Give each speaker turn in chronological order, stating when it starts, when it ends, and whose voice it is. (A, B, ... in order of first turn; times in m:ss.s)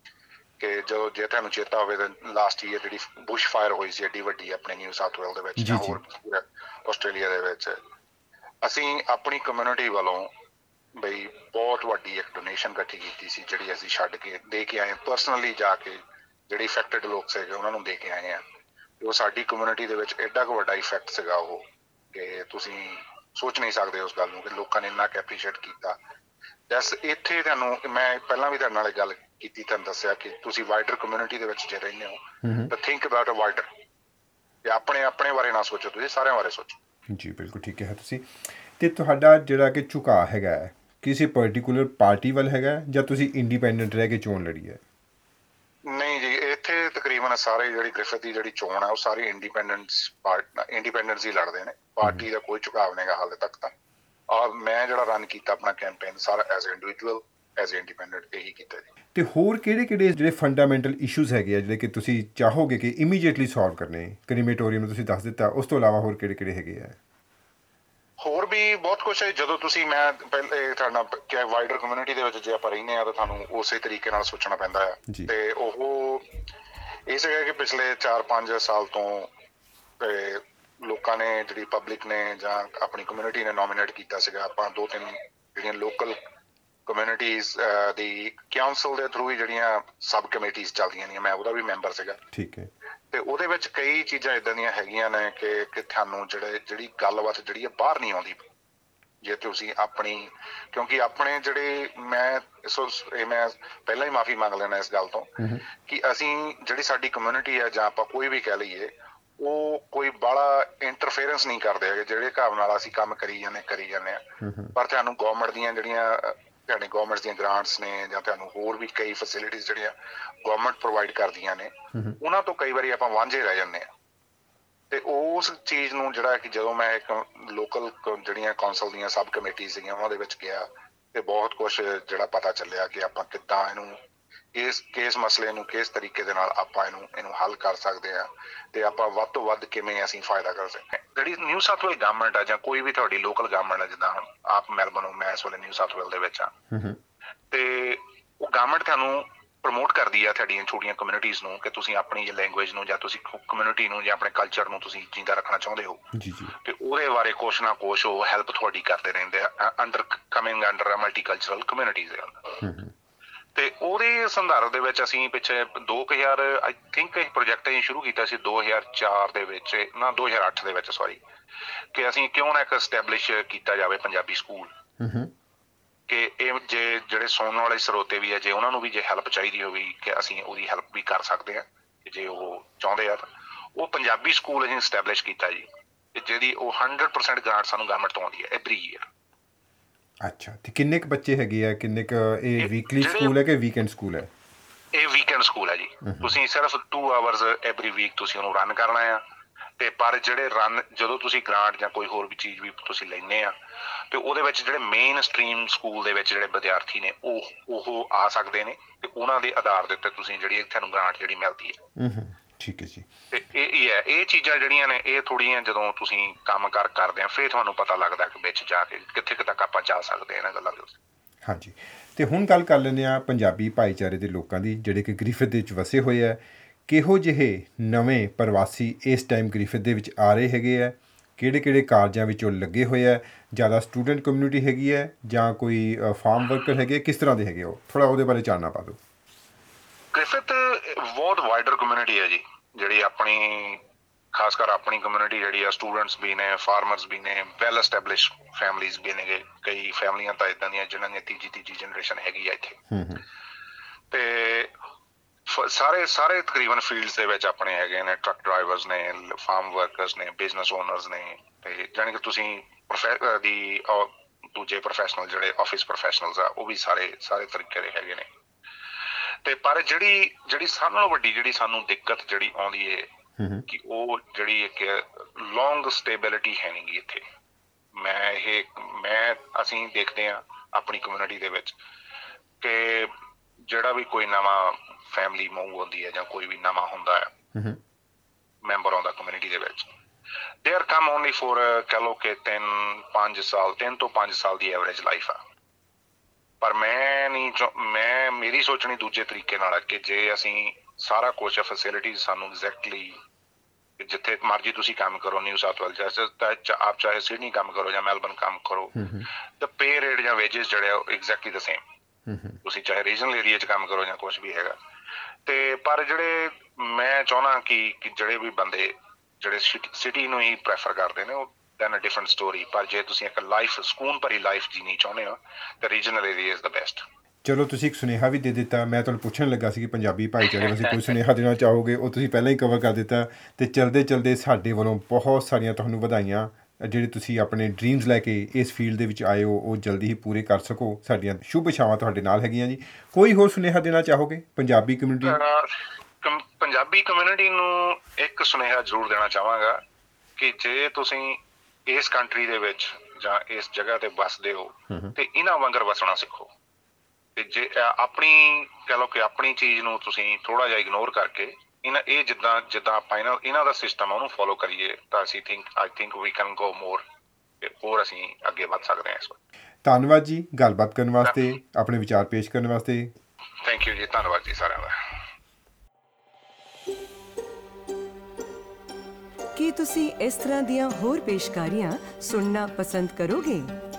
0:00.6-0:07.8 A
0:05.6-0:06.0 B
0:08.6-0:10.3 A
0:11.0-0:18.4 A
0:19.0-0:26.0 A
0:26.7-0:33.7 A
0:32.4-0:32.7 B
0:34.6-0:36.8 A
0:37.1-0:44.8 B
0:45.9-0:53.7 A
0:54.3-0:58.9 A
0:59.1-1:07.0 B
1:08.2-1:16.2 A
1:17.1-1:19.3 A
1:20.0-1:26.2 A
1:26.9-1:32.2 A
1:32.3-1:32.7 B
1:33.1-1:38.5 A
1:39.2-1:59.9 A
1:45.4-1:45.6 B
1:54.4-1:54.8 B
2:00.4-2:03.9 A
2:04.9-2:14.0 A
2:14.5-2:26.5 A
2:26.7-2:27.0 B
2:27.5-2:36.1 A
2:36.1-2:36.6 B
2:36.6-2:42.6 A
2:42.6-2:42.9 B
2:43.6-2:51.2 A
2:51.9-2:54.7 A
2:55.0-2:55.3 B
2:56.1-3:03.2 A
3:03.8-3:09.1 A
3:10.2-3:14.3 B
3:12.6-3:13.4 A
3:14.9-3:19.2 A
3:16.0-3:16.4 B
3:19.8-3:23.5 A
3:24.1-3:31.8 A
3:32.0-3:33.1 B
3:33.3-3:41.0 A
3:41.4-3:59.0 B
4:00.1-4:03.8 A
4:04.3-4:12.8 A
4:12.9-4:13.2 B
4:14.1-4:14.7 A
4:15.5-4:28.3 A
4:29.4-4:33.1 A
4:33.4-4:33.7 B
4:33.7-4:37.2 A
4:38.0-4:41.8 A
4:42.6-4:43.1 A
4:43.7-4:47.3 A
4:47.5-4:47.8 B
4:48.6-4:49.9 A
4:50.6-4:55.4 A
4:56.6-5:03.2 A
5:04.0-5:09.0 A
5:08.9-5:09.3 B
5:09.6-5:11.8 A
5:12.3-5:12.6 B
5:12.6-5:14.8 A
5:15.5-5:27.0 A
5:27.4-5:45.4 B
5:45.2-5:49.8 A
5:50.4-5:56.5 A
5:57.4-6:07.0 A
6:07.6-6:09.4 A
6:09.8-6:13.1 B
6:13.6-6:15.0 A
6:19.6-6:23.7 C